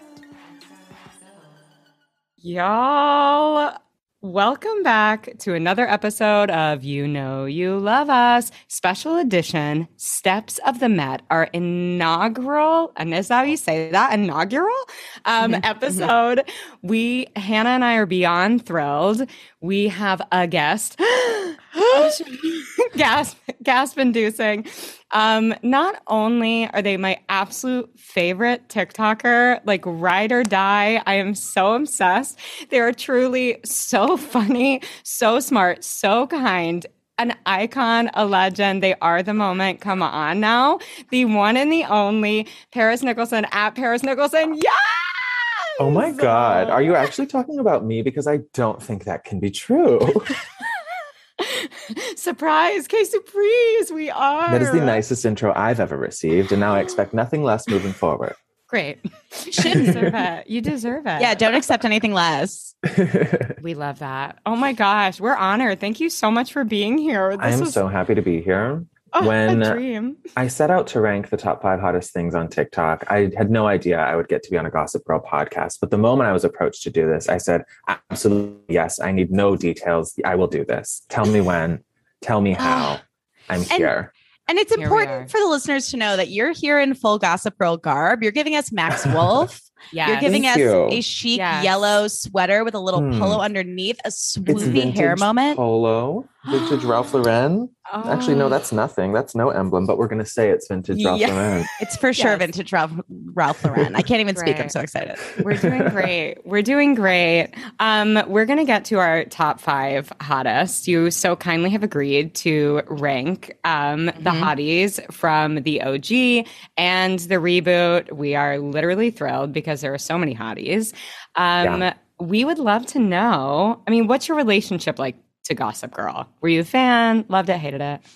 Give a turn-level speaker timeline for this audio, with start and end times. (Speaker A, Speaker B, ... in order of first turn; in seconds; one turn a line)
Speaker A: 2.4-47.1
Speaker B: 15.4-16.1
Speaker C: 45.8-50.4
Speaker A: 51.4-55.0
Speaker C: 54.5-58.4
Speaker A: 58.7-61.6
Speaker B: 59.6-60.1
Speaker C: 59.6-60.1
Speaker B: 61.2-62.8
Speaker C: 62.8-63.5
Speaker A: 63.6-67.8
Speaker C: 67.4-69.8
Speaker A: 69.1-70.2
Speaker C: 70.4-84.1
Speaker B: 82.6-82.9
Speaker B: 84.5-95.6
Speaker A: 84.8-85.3
Speaker C: 88.9-89.5
Speaker A: 89.9-90.4
Speaker C: 90.2-91.0
Speaker A: 91.3-91.9
Speaker C: 92.9-93.4
Speaker A: 94.5-94.9
Speaker C: 94.5-101.7
Speaker B: 96.5-96.9
Speaker A: 97.9-98.6
Speaker A: 100.9-102.5
Speaker B: 101.8-105.4
Speaker A: 104.3-104.7
Speaker C: 105.3-106.1
Speaker A: 105.4-128.0
Speaker B: 114.2-114.5
Speaker C: 121.6-121.9